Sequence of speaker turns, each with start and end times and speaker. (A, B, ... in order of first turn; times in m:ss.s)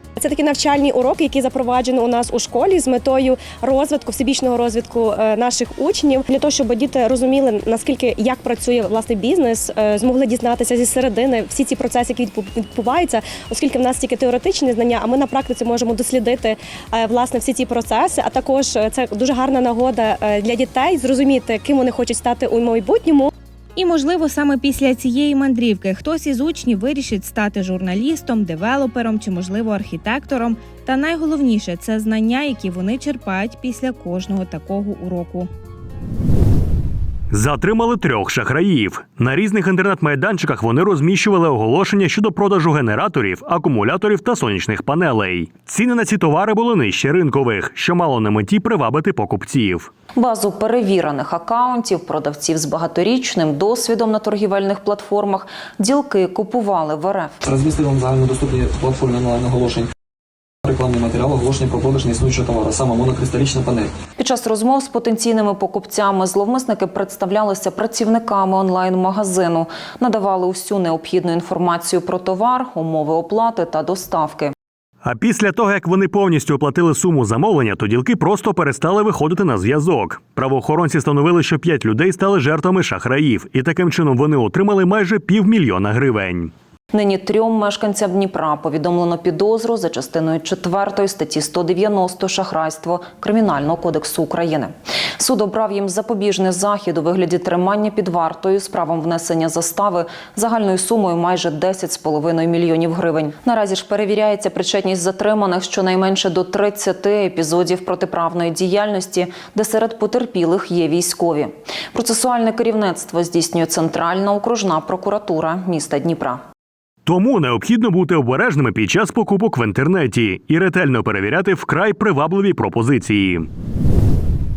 0:00.2-0:23.3 A
0:23.8-0:35.5 B
0:37.3-0:49.9 C
0:50.2-0:57.4 D
0:57.4-0:59.9 E
1:00.6-1:03.9 E
1:04.2-1:14.5 D
1:15.0-1:26.5 C
1:26.9-1:56.4 D
1:57.1-2:03.5 C